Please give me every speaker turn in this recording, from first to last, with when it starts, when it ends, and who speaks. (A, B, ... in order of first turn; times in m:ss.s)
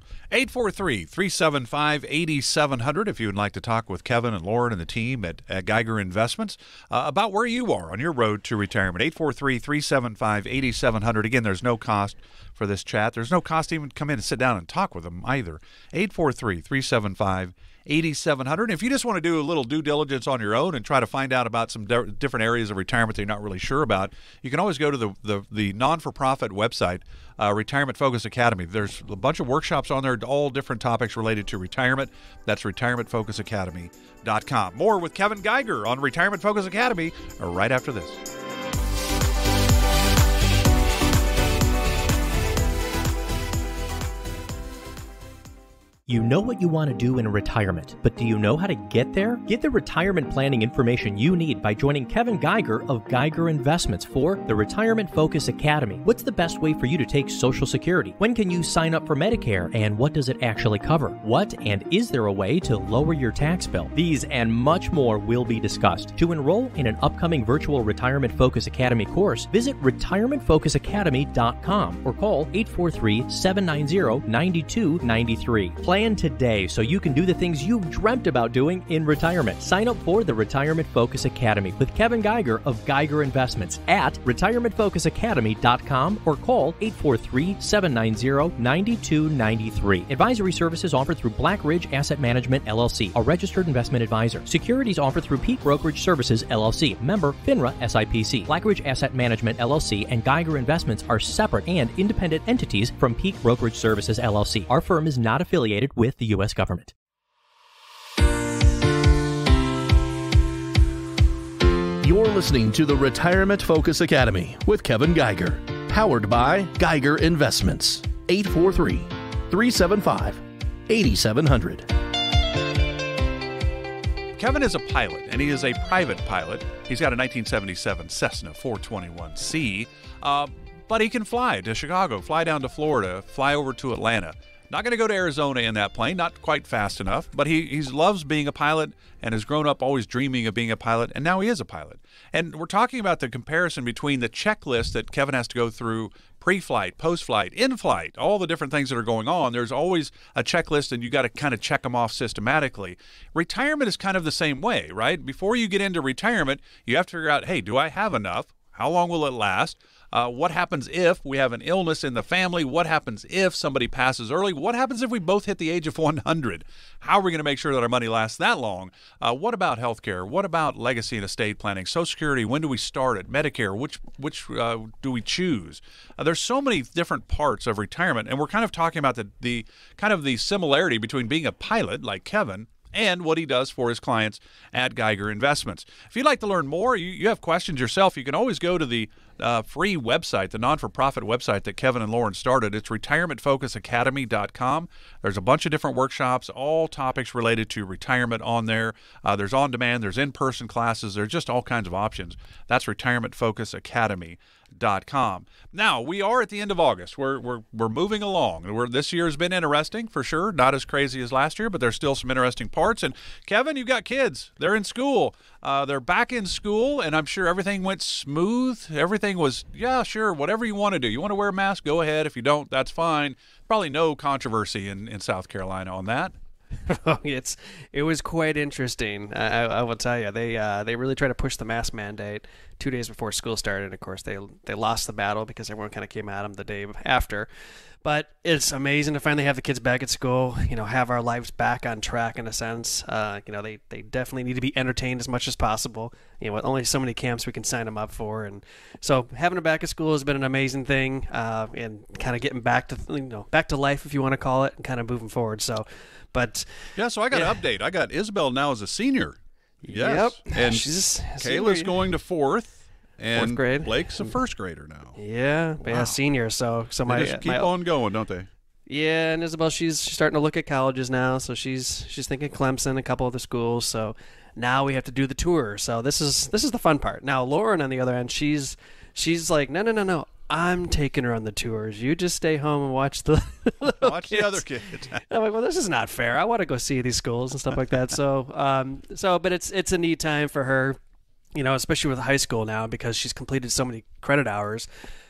0:00.3-0:38.2 A
0:46.1-1:46.9 B
1:52.0-2:01.9 C
2:04.4-3:46.3 A
3:46.9-3:57.5 D
3:58.0-4:16.7 D
4:17.0-4:19.4 A
4:17.3-4:17.6 D
4:19.8-4:22.0 D
4:19.9-4:20.9 A
4:21.4-4:25.2 A
4:23.3-4:24.4 D
4:25.2-4:27.7 D
4:25.9-4:26.2 A
4:27.1-4:28.5 A
4:28.9-4:51.0 D
4:43.8-4:45.2 A
4:51.5-4:54.9 D